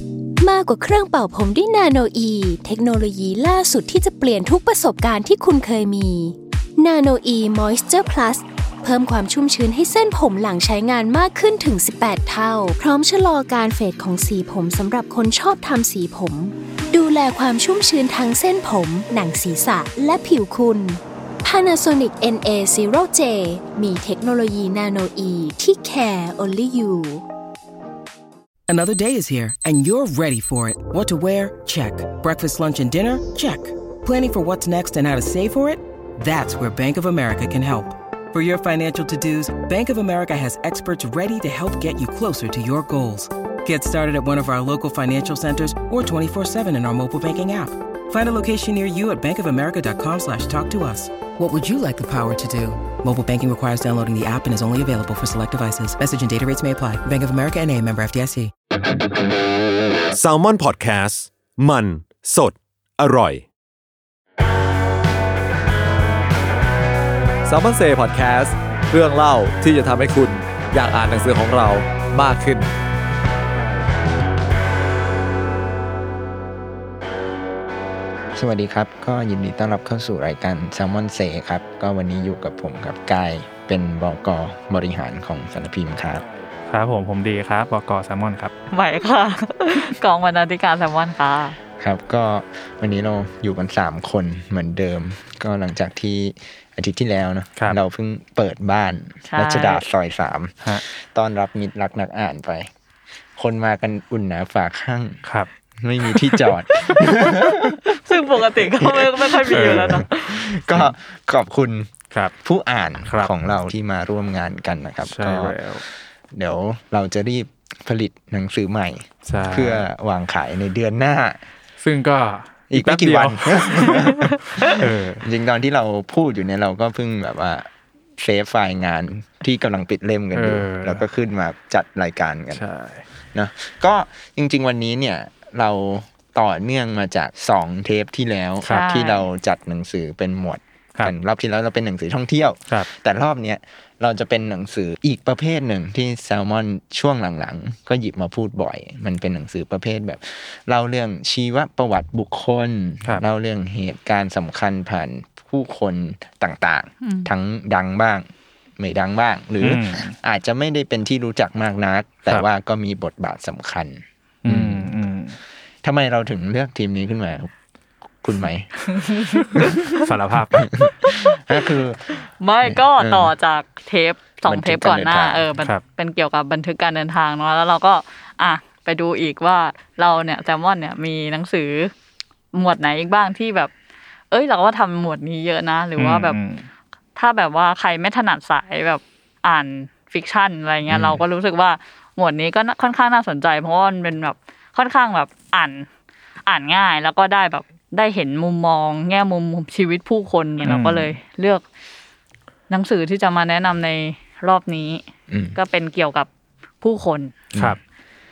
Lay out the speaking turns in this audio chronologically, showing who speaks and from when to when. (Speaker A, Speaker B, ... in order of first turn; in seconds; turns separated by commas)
Speaker A: 0.4-27.2, Speaker B: 28.7-58.5, Speaker C: 60.1-63.5, Speaker D: 67.4-72.7, Speaker E: 78.3-86.2, Speaker F: 86.7-88.5, Speaker G: 88.7-91.5, Speaker E: 91.8-102.7, Speaker G: 99.3-99.8, Speaker E: 103.3-105.2, Speaker F: 105.2-105.5, Speaker E: 105.8-111.9, Speaker G: 107.9-110.5, Speaker F: 109.5-110.0, Speaker E: 112.4-115.6, Speaker F: 113.0-113.3, Speaker F: 115.0-115.8, Speaker E: 116.3-121.4, Speaker F: 119.2-119.9, Speaker F: 121.8-125.2, Speaker E: 122.7-132.6, Speaker F: 130.3-131.0, Speaker F: 132.5-133.0, Speaker E: 133.3-158.2, Speaker G: 138.6-139.2, Speaker G: 157.0-157.3, Speaker E: 158.8-164.9, Speaker F: 159.6-160.1, Speaker F: 164.4-165.4, Speaker E: 165.8-167.5, Speaker E: 168.2-168.8, Speaker G: 168.9-170.1, Speaker F: 169.9-170.7, Speaker E: 170.6-172.1, Speaker G: 171.1-171.4, Speaker G: 172.4-181.9, Speaker E: 172.6-173.3, Speaker E: 174.4-175.4, Speaker G: 182.5-183.7, Speaker G: 184.3-186.4, Speaker F: 186.0-186.7, Speaker G: 187.2-195.9, Speaker E: 190.9-191.2, Speaker G: 196.4-201.6, Speaker F: 200.6-201.1, Speaker G: 202.7-205.0, Speaker E: 205.3-205.6, Speaker G: 205.5-206.3, Speaker G: 206.8-207.3